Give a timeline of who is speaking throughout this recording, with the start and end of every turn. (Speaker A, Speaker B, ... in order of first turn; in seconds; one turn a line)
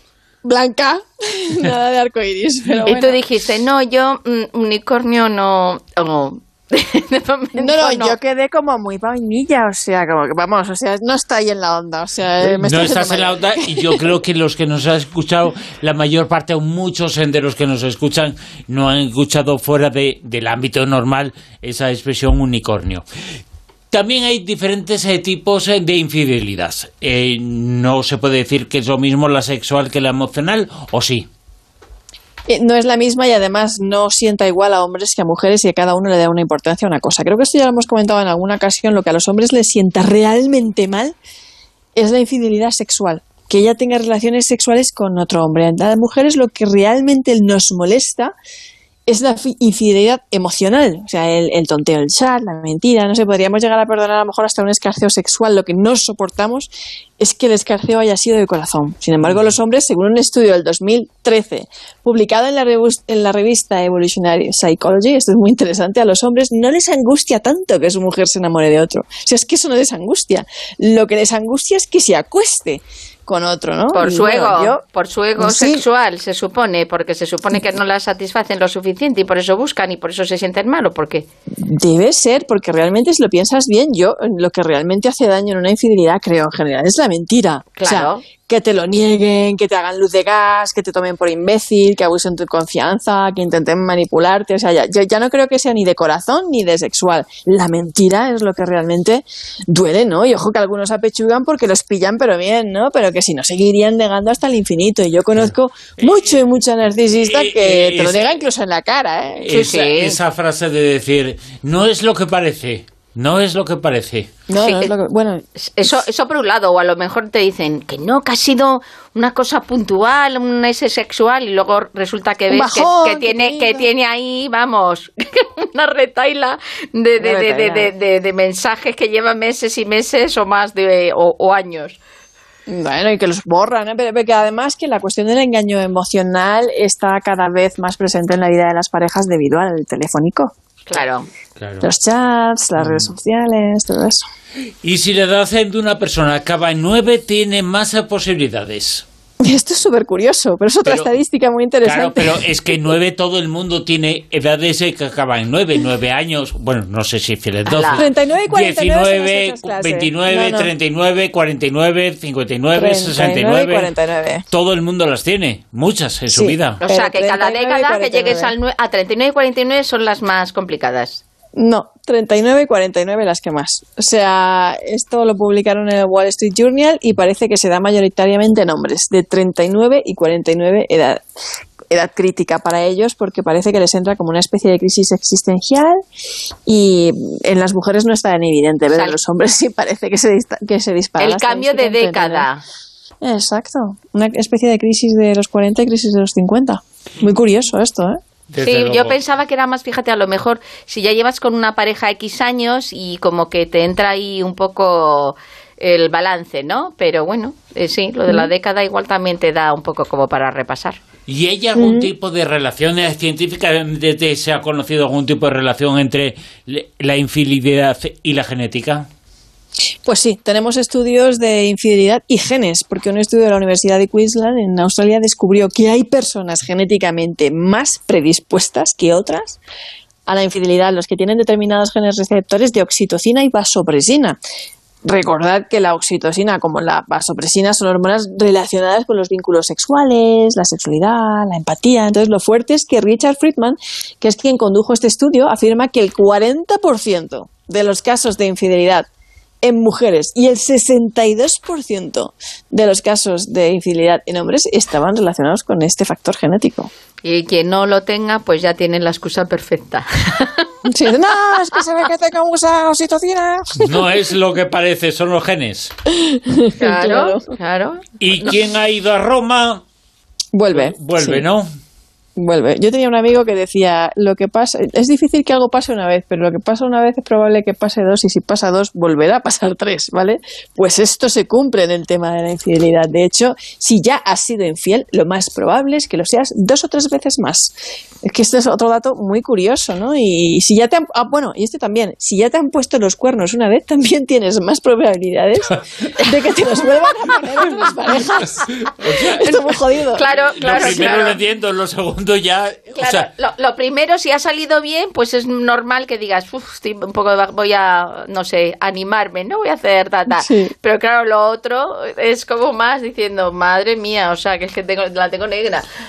Speaker A: 0.4-3.2
Speaker B: 2.9-8.2
Speaker A: 7.6-14.1
Speaker C: 12.4-23.0
Speaker C: 23.9-31.3
Speaker A: 32.5-41.2
Speaker A: 42.0-48.4
Speaker A: 49.1-74.8
Speaker B: 73.9-81.3
Speaker A: 75.4-75.8
Speaker A: 81.6-109.5
Speaker B: 87.8-88.2
Speaker C: 105.4-106.3
Speaker C: 107.2-108.4
Speaker C: 109.4-114.3
Speaker B: 109.5-110.2
Speaker A: 114.5-116.0
Speaker B: 114.6-114.9
Speaker B: 115.6-132.0
Speaker A: 122.5-123.9
Speaker A: 127.2-127.9
Speaker A: 132.7-140.5
Speaker B: 140.9-141.3
Speaker C: 141.6-141.9
Speaker A: 141.8-144.2
Speaker C: 142.8-143.1
Speaker C: 144.8-149.1
Speaker A: 149.4-152.8
Speaker C: 150.9-151.2
Speaker C: 151.8-163.9
Speaker B: 157.7-158.1
Speaker A: 157.9-160.7
Speaker A: 162.7-164.4
Speaker C: 164.5-166.8
Speaker A: 166.3-168.5
Speaker B: 166.8-171.2
Speaker A: 171.6-181.2
Speaker A: 181.9-186.0
Speaker A: 186.7-192.5
Speaker B: 188.9-189.2
Speaker B: 191.2-192.6
Speaker A: 193.2-198.2
Speaker C: 198.5-199.2
Speaker B: 198.6-211.0
Speaker C: 211.3-219.1
Speaker A: 211.8-212.1
Speaker A: 220.1-229.6
Speaker A: 230.3-234.4
Speaker A: 235.1-249.1
Speaker A: 249.6-256.9
Speaker B: 257.2-260.7
Speaker A: 260.9-264.0
Speaker C: 263.8-265.9
Speaker A: 266.1-267.5
Speaker B: 266.8-268.5
Speaker C: 268.2-269.8
Speaker A: 270.5-271.4
Speaker C: 270.7-271.7
Speaker A: 272.4-301.2
Speaker C: 298.8-303.3
Speaker B: 300.1-301.4
Speaker B: 302.9-315.9
Speaker A: 310.3-310.7